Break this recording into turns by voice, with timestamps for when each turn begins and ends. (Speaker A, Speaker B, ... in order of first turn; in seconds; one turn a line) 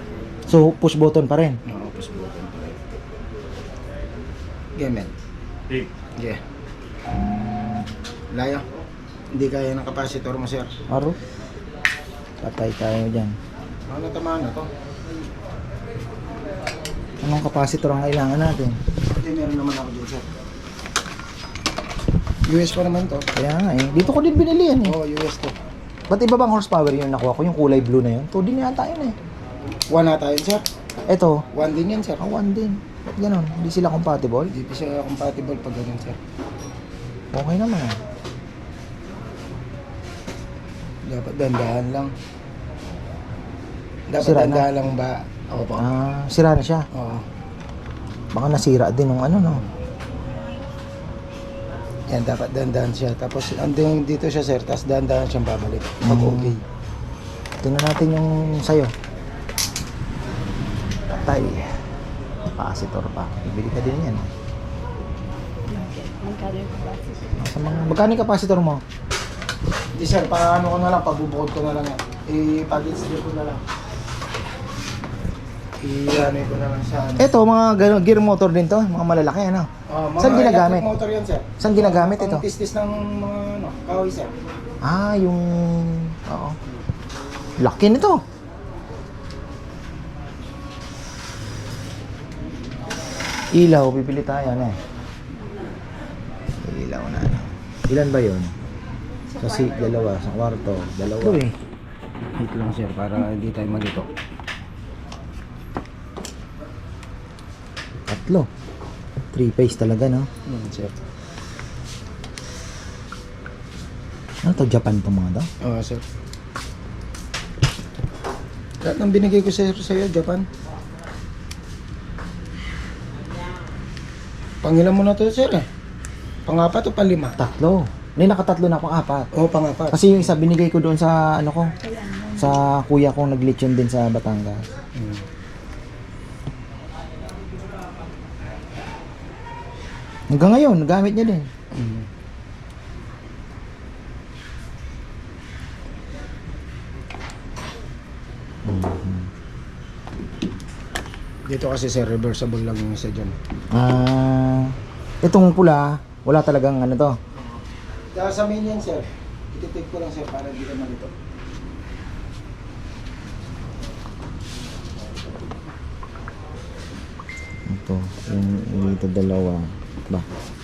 Speaker A: 0.5-1.6
Speaker B: 1.7-2.8
Speaker B: 4.8-5.1
Speaker A: 7.4-7.7
Speaker B: 8.3-8.6
Speaker B: 9.3-10.7
Speaker A: 10.9-11.2
Speaker A: 12.4-13.3
Speaker B: 13.9-14.7
Speaker A: 17.2-18.8
Speaker B: 19.1-20.3
Speaker B: 22.5-23.3
Speaker A: 23.4-24.9
Speaker B: 24.8-25.6
Speaker A: 26.1-29.1
Speaker B: 29.9-30.6
Speaker A: 31.1-31.5
Speaker B: 31.5-32.3
Speaker A: 32.2-34.5
Speaker B: 34.5-36.2
Speaker A: 37.3-38.0
Speaker B: 41.1-42.1
Speaker B: 44.1-45.9
Speaker A: 44.2-44.7
Speaker A: 45.8-46.9
Speaker B: 46.9-47.2
Speaker A: 48.3-49.6
Speaker B: 52.1-56.6
Speaker A: 56.0-56.6
Speaker A: 57.6-58.9
Speaker A: 61.1-61.7
Speaker A: 62.5-64.3
Speaker C: 65.7-67.4
Speaker A: 67.4-68.8
Speaker B: 70.0-73.6
Speaker B: 75.8-77.3
Speaker A: 77.2-80.9
Speaker B: 79.9-84.3
Speaker A: 81.6-82.4
Speaker A: 84.8-86.6
Speaker A: 87.6-88.2
Speaker A: 93.5-94.8
Speaker A: 96.6-98.5
Speaker C: 99.3-100.0
Speaker A: 99.4-101.5
Speaker B: 102.4-104.1
Speaker A: 108.1-108.5
Speaker A: 109.3-110.3
Speaker B: 110.5-111.0
Speaker A: 114.5-115.5
Speaker B: 115.6-116.0
Speaker B: 118.8-120.5
Speaker B: 124.6-125.7
Speaker B: 126.5-127.4
Speaker A: 127.4-129.3
Speaker B: 129.3-130.4
Speaker A: 129.9-131.7
Speaker C: 131.8-132.7
Speaker A: 132.3-134.6
Speaker B: 135.0-135.2
Speaker A: 140.3-141.5
Speaker B: 141.7-142.1
Speaker A: 148.7-149.3
Speaker B: 151.5-153.3
Speaker A: 153.7-157.2
Speaker B: 158.1-161.1
Speaker A: 167.7-170.3